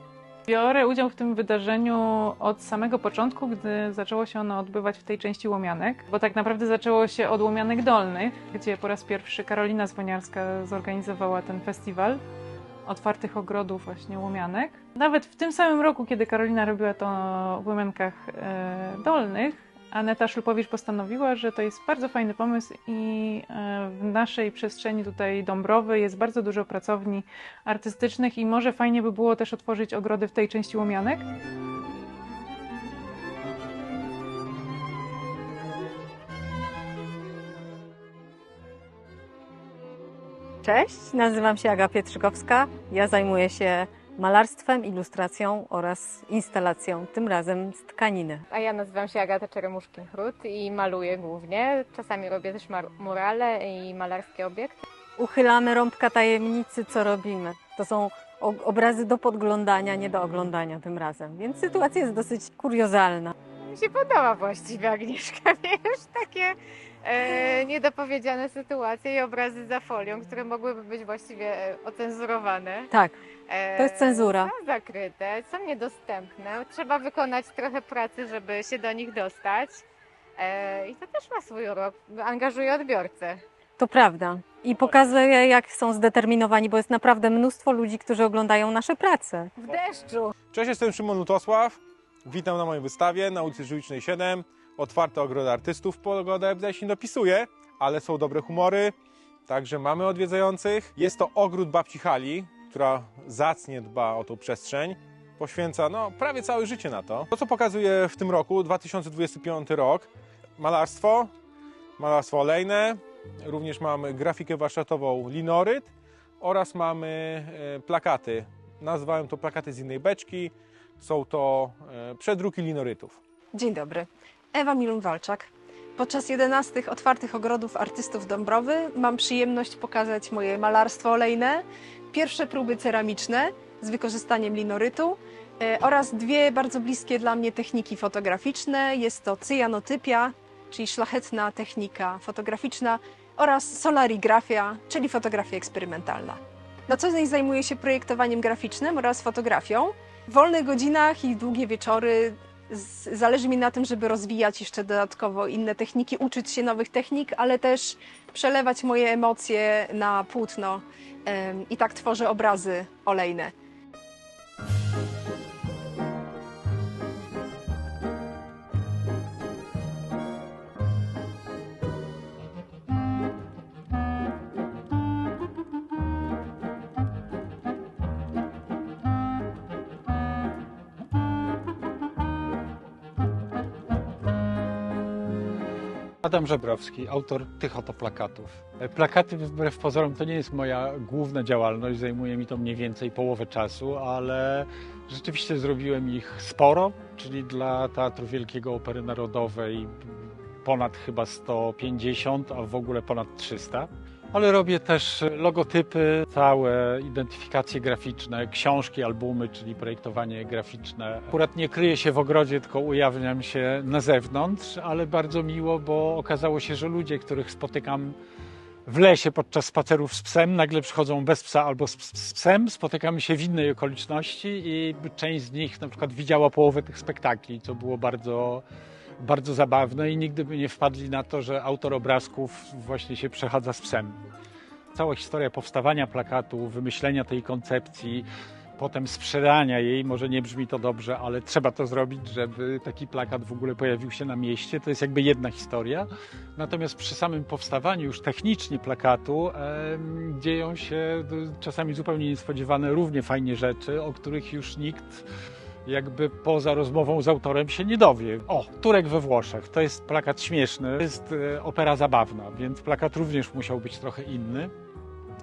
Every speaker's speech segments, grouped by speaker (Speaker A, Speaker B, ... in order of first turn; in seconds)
Speaker A: 0.5-12.2, 12.9-31.2
Speaker B: 40.6-48.5, 55.2-63.4, 72.9-73.2, 73.8-74.5, 83.8-89.5
Speaker C: 48.5-54.8, 63.7-66.5, 67.0-72.9, 73.5-79.8, 80.4-83.4, 89.7-90.3
Speaker D: 90.5-98.9, 99.5-111.3, 112.0-123.2
Speaker E: 123.5-163.5
Speaker F: 186.2-218.2, 218.9-228.6, 229.2-234.2, 234.9-238.2, 238.8-255.2, 255.9-264.7